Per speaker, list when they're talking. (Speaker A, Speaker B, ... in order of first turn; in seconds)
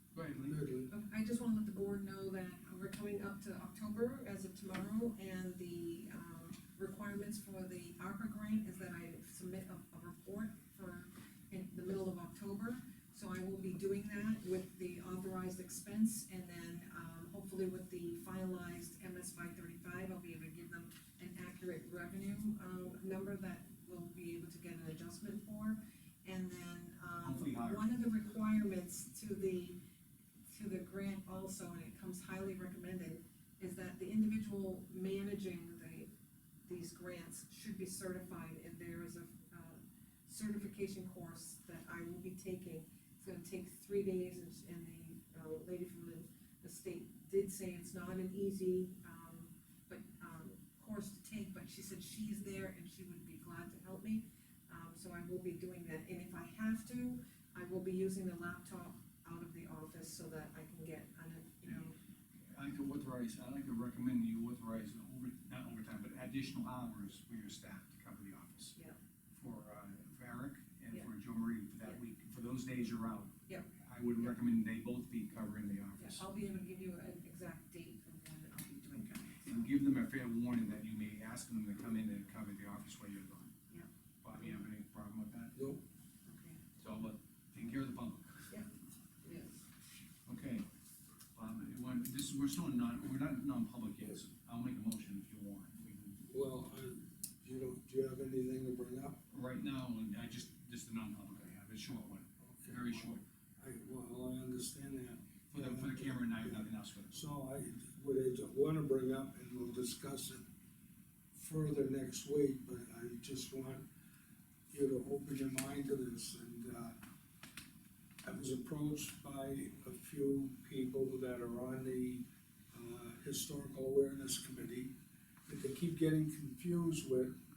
Speaker A: 0.1-0.6, 27.2-27.9, 62.5-68.7, 69.3-76.2, 79.5-83.5, 84.2-85.6, 86.8-88.5, 90.2-90.6, 91.3-96.2, 99.3-103.2, 105.5-107.2
Speaker B: 0.3-0.9, 85.5-85.8, 96.3-99.2, 102.4-110.4, 111.3-113.8, 114.7-117.0, 118.2-124.9, 125.5-127.3
Speaker C: 0.9-29.8, 30.5-36.1, 36.6-62.0, 73.5-74.3, 76.0-79.7, 86.2-86.6, 89.2-89.6